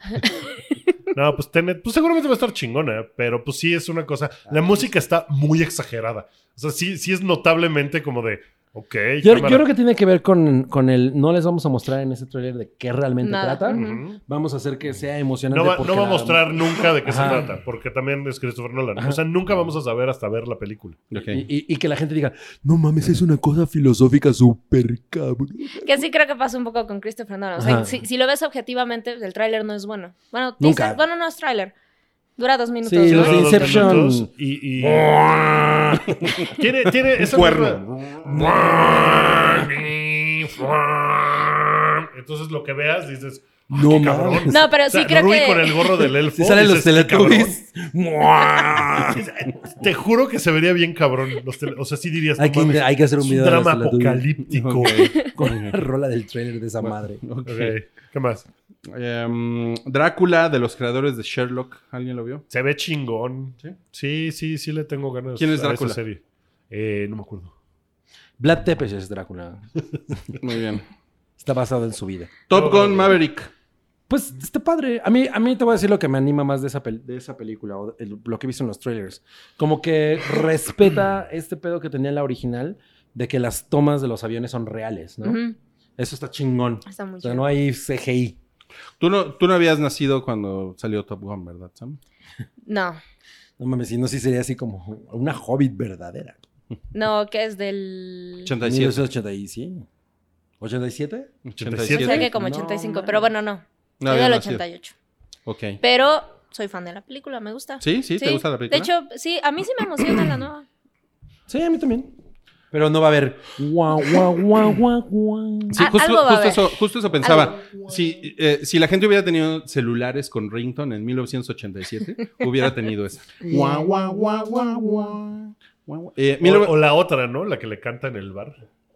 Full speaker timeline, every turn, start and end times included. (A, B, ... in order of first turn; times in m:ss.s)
0:01.1-0:09.7 A
0:09.2-0:17.5 B
0:13.2-0:14.0 C
0:13.7-0:14.2 A
0:15.5-0:21.0 A
0:19.0-0:19.2 B
0:21.1-0:21.4 D
0:21.2-0:25.9 B
0:25.8-0:31.7 C
0:27.6-0:28.0 B
0:30.6-0:31.0 B
0:32.4-0:34.0 C
0:32.8-0:36.4 B
0:33.1-0:35.2 A
0:36.4-0:47.6 A
0:37.2-0:38.6 D
0:38.2-0:39.8 B
0:43.7-0:44.6 B
0:44.5-0:46.1 C
0:46.2-0:49.3 B
0:49.0-0:55.2 A
0:52.4-0:54.3 B
0:54.4-0:55.8 D
0:55.3-0:57.2 B
0:56.8-0:57.8 D
0:57.5-0:58.5 A
0:58.9-1:02.4 D
1:02.5-1:07.5 A
1:05.4-1:06.0 D
1:08.4-1:10.2 B
1:10.4-1:10.8 D
1:11.4-1:12.4 B
1:12.5-1:13.5 D
1:12.5-1:13.2 A
1:14.1-1:25.4 B
1:25.2-1:25.6 C
1:26.0-1:28.4 B
1:26.9-1:27.5 C
1:29.0-1:32.0 D
1:32.6-1:33.0 C
1:33.6-1:36.4 B
1:36.9-1:38.5 C
1:38.4-1:39.1 D
1:38.6-1:39.9 B
1:40.6-1:41.3 B
1:41.4-1:42.3 D
1:41.6-1:42.3 A
1:41.9-1:44.9 C
1:42.3-1:43.2 B
1:44.0-1:44.6 D
1:45.5-1:45.8 D
1:45.8-1:50.7 C
1:47.8-1:48.9 D
1:51.5-1:52.1 B
1:52.7-1:55.9 B
1:55.7-2:06.8 D
1:55.8-1:57.5 C
1:57.2-1:58.0 A
2:03.4-2:05.2 B
2:06.4-2:08.6 A